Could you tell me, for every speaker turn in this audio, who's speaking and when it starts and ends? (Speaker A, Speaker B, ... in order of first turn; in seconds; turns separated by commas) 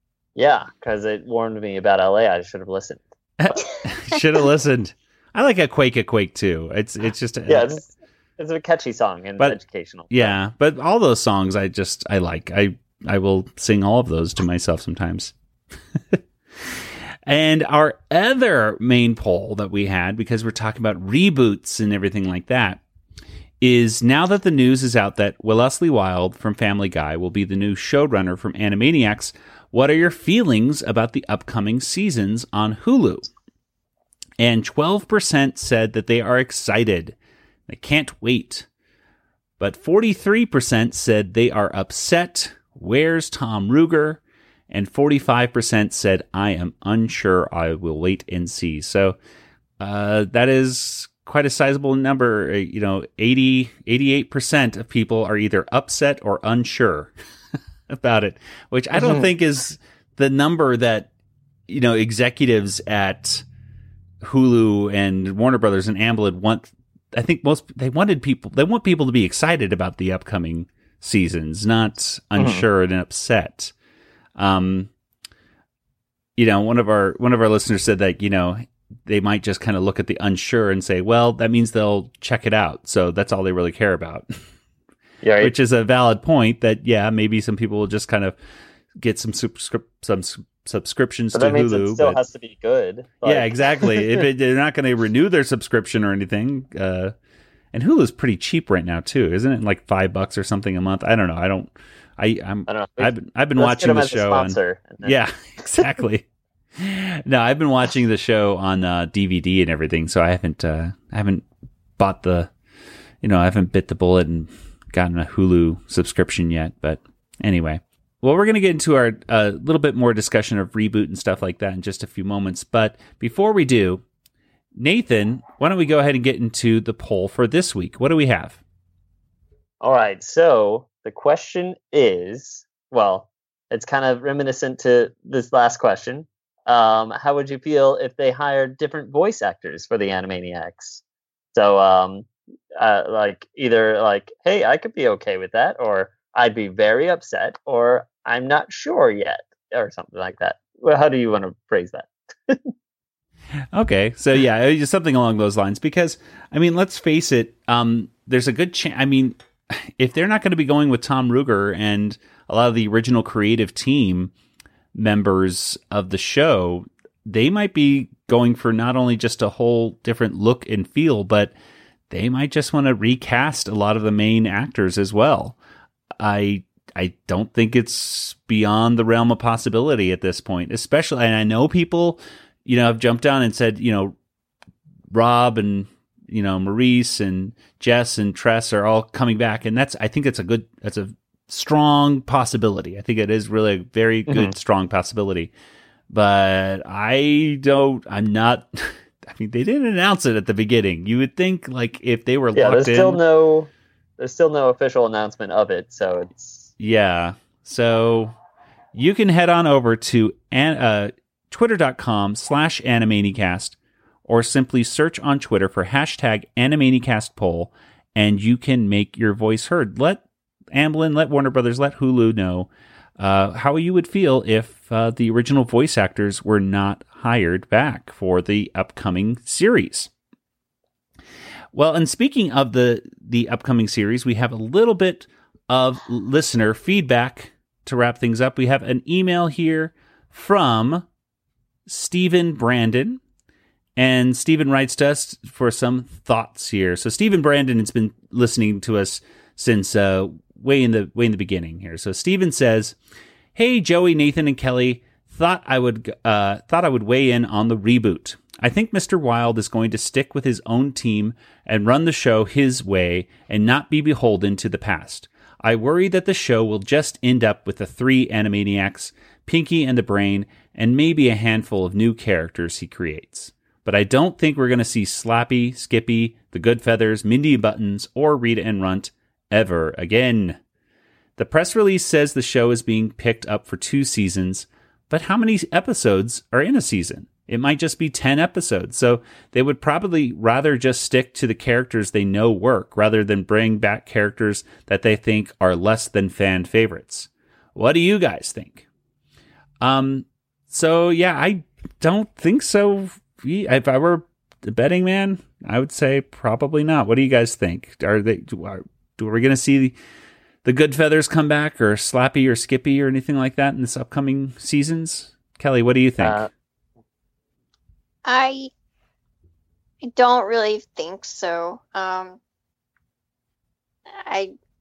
Speaker A: 0.4-3.6, Speaker B: 3.4-7.8, Speaker A: 7.5-7.9, Speaker A: 8.4-10.4, Speaker B: 10.1-15.3, Speaker B: 16.1-22.8, Speaker B: 23.6-33.3, Speaker B: 34.4-37.1, Speaker B: 37.7-38.7, Speaker B: 39.6-49.2, Speaker B: 49.8-57.1, Speaker B: 57.9-61.1, Speaker A: 59.0-59.3, Speaker B: 61.7-63.5, Speaker B: 64.2-73.7, Speaker A: 72.4-72.7, Speaker B: 74.4-74.9, Speaker B: 76.4-84.3, Speaker A: 85.2-85.5, Speaker B: 85.4-88.4, Speaker B: 89.0-92.2, Speaker A: 91.3-94.2, Speaker B: 93.2-97.1, Speaker B: 97.7-111.5, Speaker A: 102.7-105.2, Speaker B: 112.0-112.5, Speaker B: 113.2-124.0, Speaker B: 124.8-128.6, Speaker A: 129.8-141.0, Speaker A: 141.5-152.7, Speaker B: 153.7-164.3, Speaker B: 164.9-171.5, Speaker B: 172.1-175.6, Speaker B: 176.2-184.1, Speaker B: 185.1-195.5, Speaker A: 194.3-194.5, Speaker B: 196.1-203.2, Speaker A: 202.6-206.7, Speaker B: 206.8-208.4, Speaker B: 208.9-230.1, Speaker B: 231.7-241.1, Speaker B: 241.9-243.2, Speaker B: 244.0-253.0, Speaker B: 253.6-280.6, Speaker B: 281.4-298.9, Speaker B: 299.8-309.9, Speaker B: 310.6-316.5, Speaker A: 316.2-316.5, Speaker C: 318.2-318.7, Speaker C: 320.0-322.4, Speaker C: 324.2-324.5